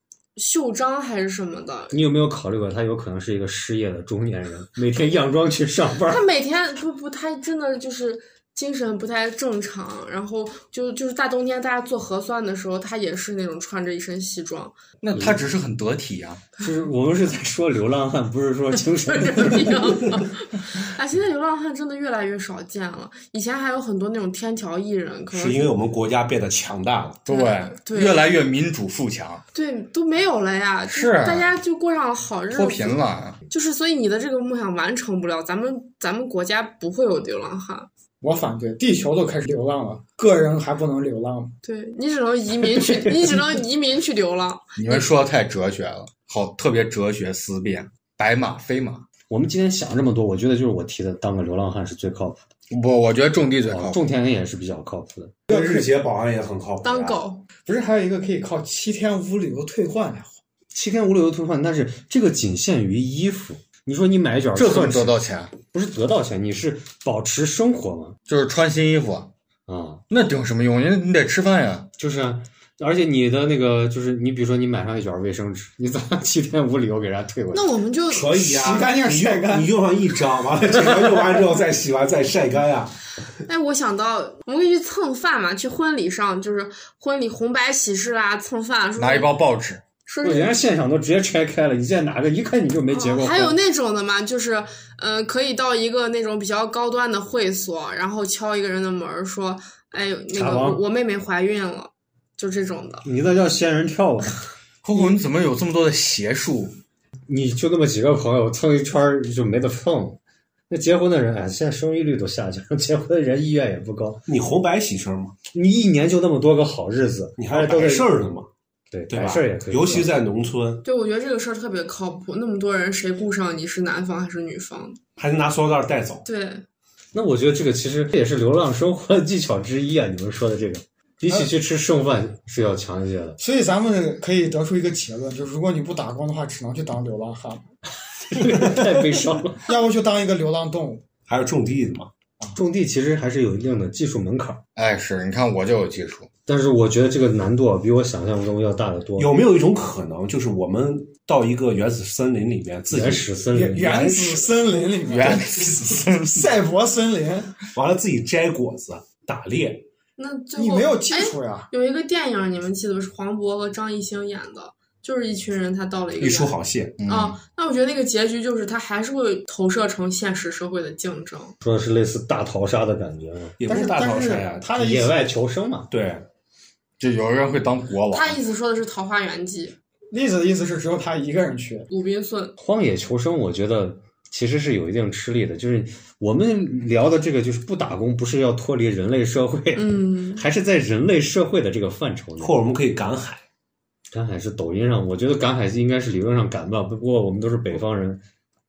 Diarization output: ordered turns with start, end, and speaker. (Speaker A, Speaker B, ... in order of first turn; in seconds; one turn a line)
Speaker A: 0.4-2.0
Speaker B: 1.9-6.2
Speaker A: 6.1-14.7
Speaker C: 15.0-16.4
Speaker B: 15.1-15.4
Speaker B: 16.6-20.0
Speaker A: 18.9-25.7
Speaker D: 25.3-27.3
Speaker C: 27.3-29.4
Speaker A: 27.3-28.2
Speaker A: 29.5-33.0
Speaker C: 30.9-31.5
Speaker C: 32.5-33.4
Speaker A: 33.5-37.9
Speaker E: 38.2-41.5
Speaker A: 41.6-45.1
Speaker C: 44.8-49.0
Speaker B: 49.3-52.4
Speaker C: 52.7-54.0
Speaker B: 53.7-55.3
Speaker E: 55.5-55.9
Speaker D: 55.5-57.2
Speaker A: 56.8-57.4
Speaker E: 57.6-60.4
Speaker B: 60.7-65.2
Speaker C: 64.5-65.5
Speaker B: 65.7-68.2
Speaker C: 68.3-69.3
Speaker B: 69.7-70.0
Speaker C: 70.1-71.9
Speaker B: 72.0-77.7
Speaker A: 77.5-78.4
Speaker D: 78.1-83.0
Speaker E: 78.4-79.8
Speaker A: 83.5-89.3
Speaker C: 89.0-89.8
Speaker A: 90.0-90.6
Speaker B: 90.2-93.6
Speaker A: 92.9-103.0
Speaker B: 100.3-100.8
Speaker B: 103.0-104.4
Speaker C: 104.8-106.8
Speaker B: 107.3-110.2
Speaker B: 110.7-114.2
Speaker D: 114.3-115.4
Speaker B: 115.5-118.2
Speaker D: 117.4-118.5
Speaker B: 118.9-120.1
Speaker D: 119.1-120.8
Speaker A: 120.8-125.0
Speaker D: 125.2-126.2
Speaker A: 126.2-126.6
Speaker B: 127.1-133.4
Speaker E: 133.4-137.6
Speaker B: 138.3-139.6
Speaker E: 139.7-141.1
Speaker D: 141.3-142.1
Speaker B: 142.5-144.6
Speaker C: 144.8-146.3
Speaker B: 146.5-149.3
Speaker D: 149.2-153.4
Speaker B: 152.9-154.5
Speaker E: 153.5-157.6
Speaker C: 155.1-156.5
Speaker D: 157.7-159.8
Speaker A: 160.2-171.6
Speaker E: 160.6-161.7
Speaker D: 166.2-167.0
Speaker C: 167.0-167.4
Speaker B: 171.6-173.6
Speaker D: 173.6-174.8
Speaker E: 173.7-175.2
Speaker B: 174.7-175.9
Speaker D: 175.9-176.2
Speaker C: 177.0-178.4
Speaker A: 178.1-179.8
Speaker E: 180.1-181.9
Speaker A: 181.9-182.5
Speaker B: 182.6-192.6
Speaker A: 189.7-190.4
Speaker D: 192.4-193.4
Speaker B: 194.1-198.2